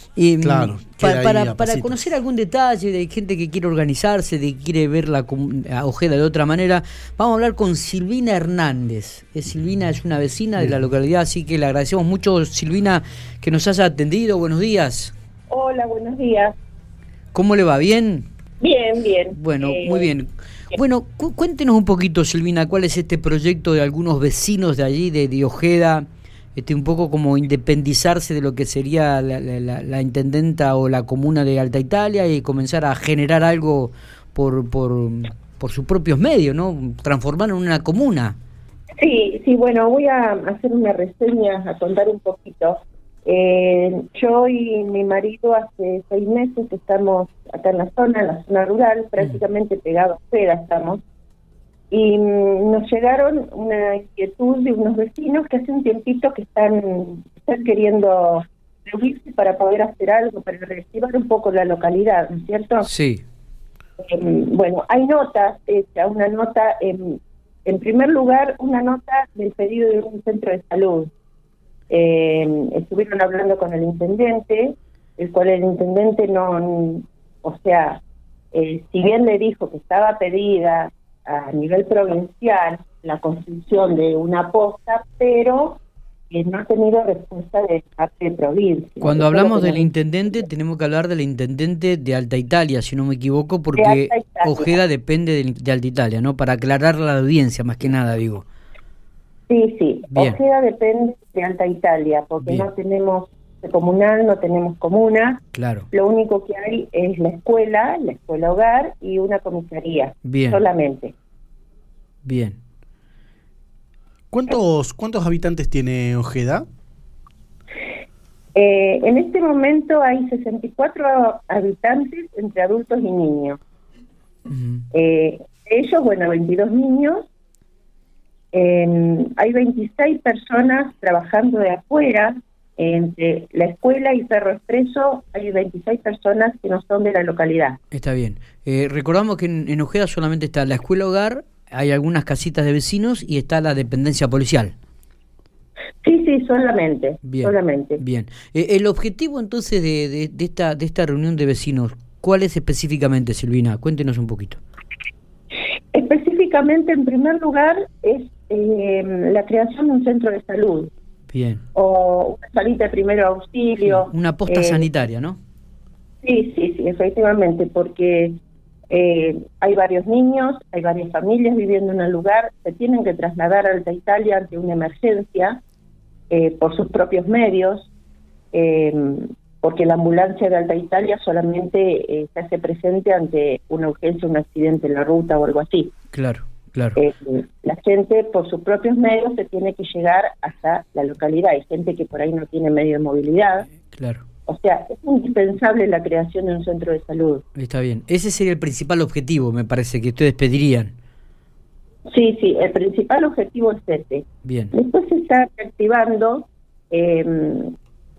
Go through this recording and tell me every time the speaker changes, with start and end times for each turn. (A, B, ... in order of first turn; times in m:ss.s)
0:00.2-0:15.1 A
0:00.4-0:02.1 B
0:15.5-0:16.5 C
0:17.3-0:18.3 A
0:18.6-0:20.1 C
0:19.3-0:38.4 A
0:39.0-0:51.0 C
0:51.9-1:02.9 C
1:02.8-1:03.2 A
1:04.0-1:11.1 C
1:11.9-1:18.0 C
1:18.5-1:29.9 C
1:29.0-1:38.4 A
1:33.8-1:34.8 C
1:39.5-1:51.1 C
1:40.1-1:40.4 A
1:45.5-1:45.9 A
1:50.2-1:50.6 A
1:52.2-1:52.6 A
1:54.3-1:56.6 B
1:58.5-2:03.6 C
2:04.5-2:04.8 A
2:04.9-2:07.2 C
2:08.5-2:17.8 C
2:17.9-2:24.7 A
2:26.0-2:28.0 C
2:27.2-2:34.6 A
2:35.9-2:40.9 C
2:41.3-2:41.6 A
2:41.7-2:44.9 C
2:43.8-2:45.4 A
2:46.2-2:48.4 C
2:48.9-2:55.6 C
2:56.3-2:57.9 C
2:58.5-3:05.9 C
3:06.1-3:07.0 A
3:07.0-3:13.7 C
3:13.9-3:14.2 A
3:14.5-3:17.4 C
3:17.6-3:20.9 A
3:22.1-3:27.7 C
3:24.4-3:24.7 A